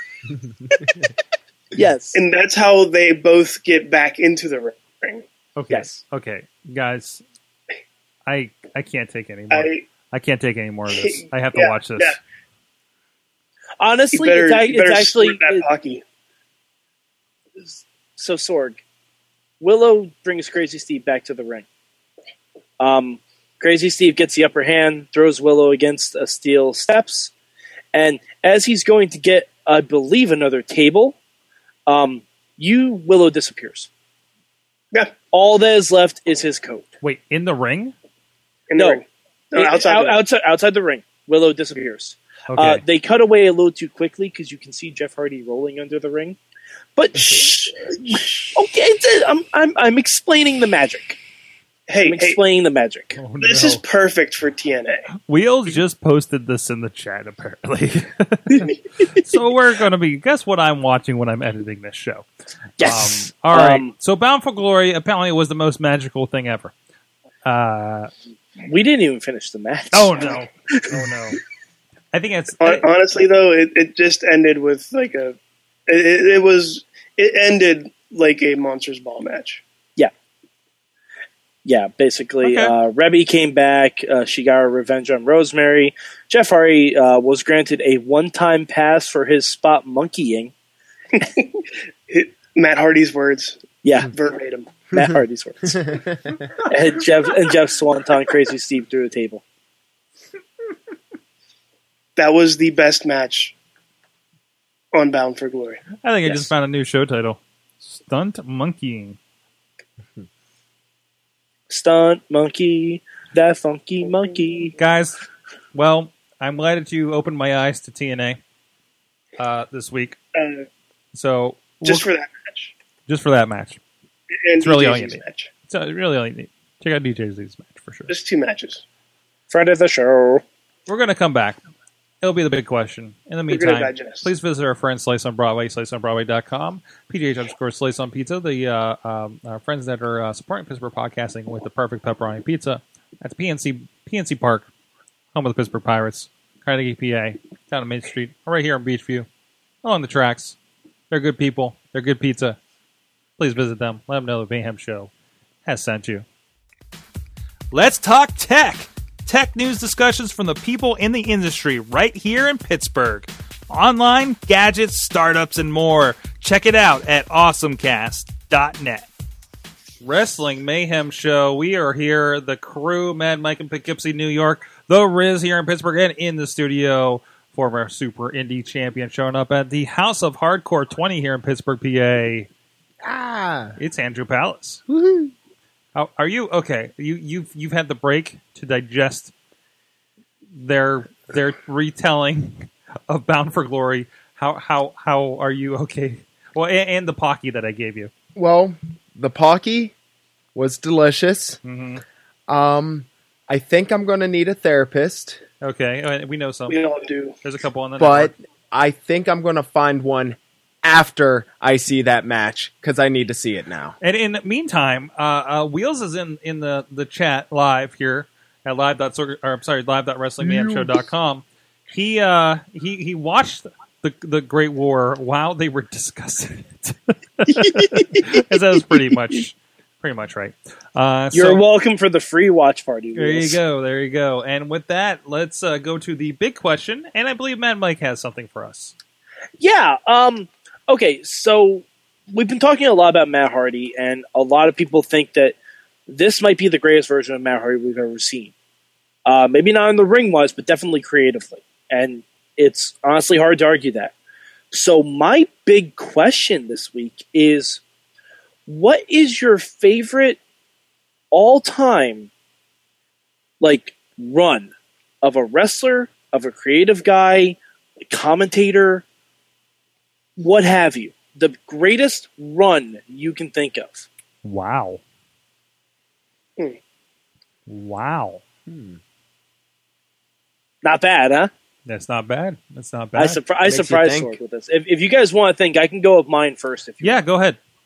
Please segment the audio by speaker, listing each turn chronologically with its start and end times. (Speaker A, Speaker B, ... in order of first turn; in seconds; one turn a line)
Speaker A: 1.7-2.2
Speaker B: 2.1-5.2
Speaker C: 5.5-7.2
Speaker A: 5.7-6.0
Speaker C: 8.2-12.2
Speaker B: 9.5-9.8
Speaker B: 10.9-12.2
Speaker A: 13.8-15.7
Speaker B: 14.1-16.0
Speaker A: 17.6-18.8
Speaker A: 19.6-21.6
Speaker A: 22.8-27.3
Speaker A: 27.9-31.2
Speaker A: 31.9-33.9
Speaker A: 35.3-36.9
Speaker C: 37.0-37.9
Speaker B: 38.7-40.2
Speaker A: 39.5-46.4
Speaker C: 42.5-42.8
Speaker A: 47.0-51.2
Speaker B: 51.9-52.4
Speaker A: 52.0-53.2
Speaker C: 53.2-53.8
Speaker B: 53.4-55.1
Speaker C: 55.2-62.3
Speaker A: 62.8-63.9
Speaker C: 62.8-66.7
Speaker C: 67.4-68.1
Speaker A: 68.6-71.0
Speaker C: 69.9-71.4
Speaker C: 72.1-72.9
Speaker B: 72.6-75.3
Speaker B: 75.9-79.6
Speaker A: 81.6-90.5
Speaker C: 82.4-82.7
Speaker B: 91.2-91.6
Speaker B: 92.1-94.8
Speaker A: 93.8-94.1
Speaker A: 94.9-96.0
Speaker A: 96.7-99.4
Speaker B: 102.2-103.5
Speaker B: 104.9-106.5
Speaker C: 106.0-109.2
Speaker A: 111.7-114.7
Speaker C: 114.8-115.2
Speaker C: 115.7-118.4
Speaker C: 119.4-120.2
Speaker B: 120.3-120.7
Speaker C: 121.1-122.1
Speaker B: 121.8-122.7
Speaker C: 123.1-123.8
Speaker B: 124.4-125.5
Speaker C: 124.6-128.1
Speaker B: 128.1-128.8
Speaker A: 129.5-130.4
Speaker C: 130.9-131.6
Speaker C: 132.2-144.7
Speaker B: 133.5-134.3
Speaker C: 145.3-149.3
Speaker C: 149.8-150.6
Speaker C: 151.1-152.6
Speaker C: 153.4-155.1
Speaker C: 155.7-156.2
Speaker C: 157.7-169.1
Speaker C: 170.0-182.5
Speaker D: 183.0-183.8
Speaker C: 183.8-184.8
Speaker D: 184.9-185.3
Speaker C: 185.9-189.3
Speaker C: 190.6-198.1
Speaker D: 198.3-199.9
Speaker D: 200.5-201.6
Speaker C: 201.6-202.0
Speaker D: 202.5-205.4
Speaker C: 205.6-206.8
Speaker B: 206.7-207.3
Speaker C: 207.4-208.3
Speaker D: 208.0-213.9
Speaker C: 214.0-231.6
Speaker D: 220.4-220.9
Speaker A: 227.7-228.2
Speaker A: 231.3-233.6
Speaker C: 233.2-238.9
Speaker A: 239.6-245.5
Speaker A: 246.1-248.5
Speaker A: 249.2-254.1
Speaker A: 254.7-257.8
Speaker A: 258.7-260.4
Speaker A: 261.3-262.3
Speaker A: 263.6-267.6
Speaker A: 268.1-269.0
Speaker A: 270.4-274.1
Speaker C: 274.4-275.0
Speaker C: 277.7-278.4
Speaker D: 278.7-279.0
Speaker A: 280.8-281.5
Speaker C: 281.9-283.4
Speaker A: 283.1-287.2
Speaker D: 283.6-284.4
Speaker C: 287.0-287.6